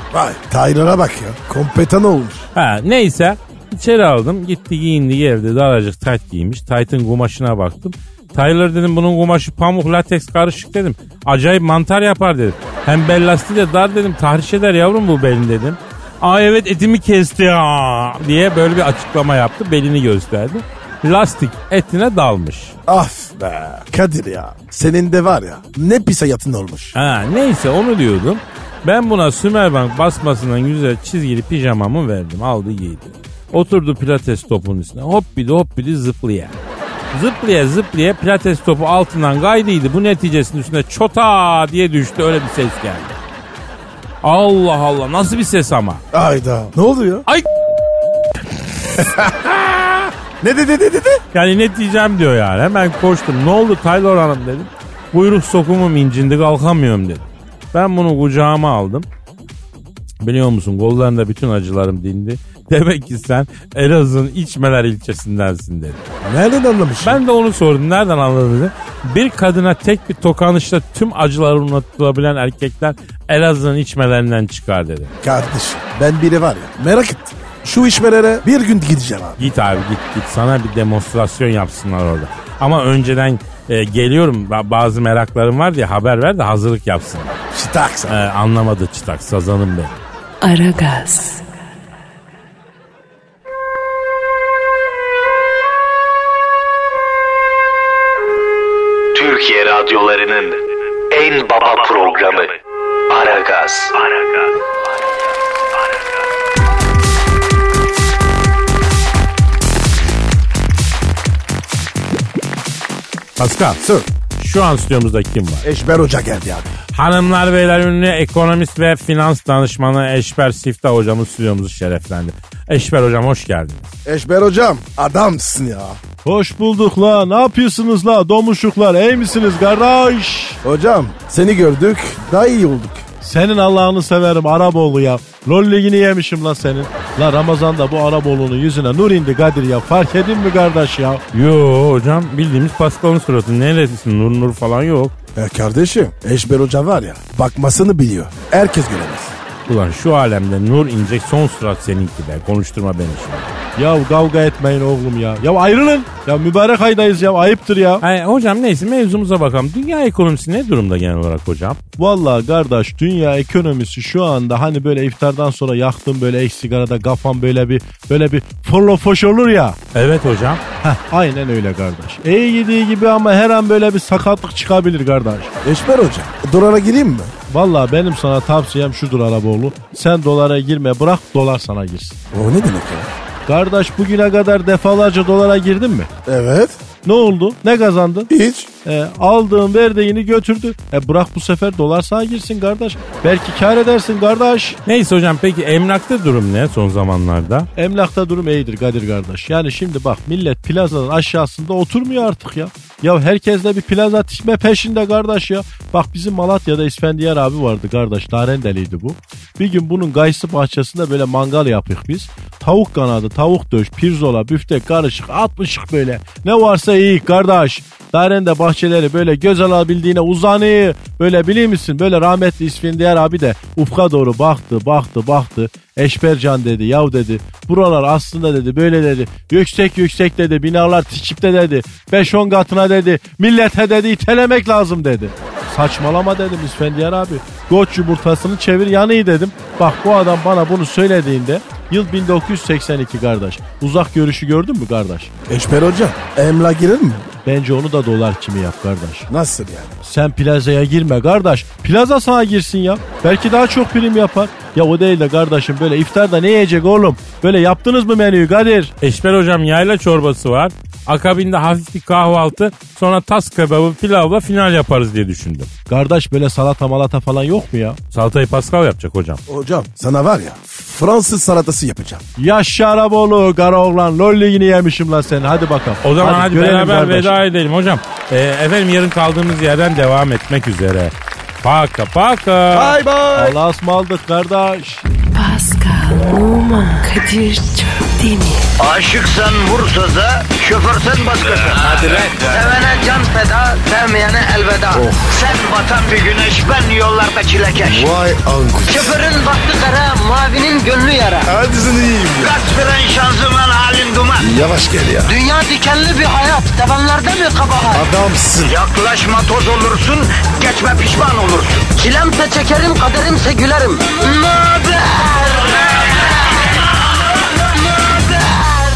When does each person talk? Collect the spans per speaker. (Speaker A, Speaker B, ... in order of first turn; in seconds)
Speaker A: 0.1-2.5, 22.9-26.9, 46.1-47.2, 48.9-49.8, 50.4-51.2, 66.2-67.2, 75.2-79.4, 87.5-88.2, 113.8-114.1, 115.6-116.7, 124.0-126.0, 130.6-133.0, 145.3-149.3, 175.6-177.3, 182.3-183.1, 186.2-186.8, 188.3-188.7, 245.5-247.3, 249.3-250.0, 269.5-272.2, 282.7-283.6, 291.8-292.3, 294.9-295.2, 297.8-299.2, 301.4-302.6, 304.4-305.3, 307.9-308.8
Speaker B: 2.5-22.8, 26.9-36.6, 37.1-43.2, 44.2-46.0, 51.3-59.1, 60.2-66.0, 67.0-75.1, 79.4-87.4, 88.1-90.0, 113.4-113.8, 114.4-115.7, 116.9-123.9, 141.3-145.1, 149.7-153.6, 158.0-161.8, 169.9-170.6, 194.8-197.7, 259.0-265.7, 268.1-269.4, 276.0-283.0
Speaker C: 90.4-91.4, 285.3-288.7
Speaker D: 99.1-102.6, 103.1-104.5
Speaker E: 126.2-130.6, 133.2-141.2, 153.8-158.0, 162.0-169.8, 170.8-175.5, 177.5-182.2, 183.4-186.1, 187.0-188.3, 188.8-194.8, 197.8-245.3, 247.4-249.3, 250.0-258.9, 265.9-268.0, 272.4-277.4, 283.3-285.0
Speaker F: 288.8-298.1, 298.8-301.5, 302.4-304.5, 305.2-308.1, 308.6-316.1, 317.9-318.7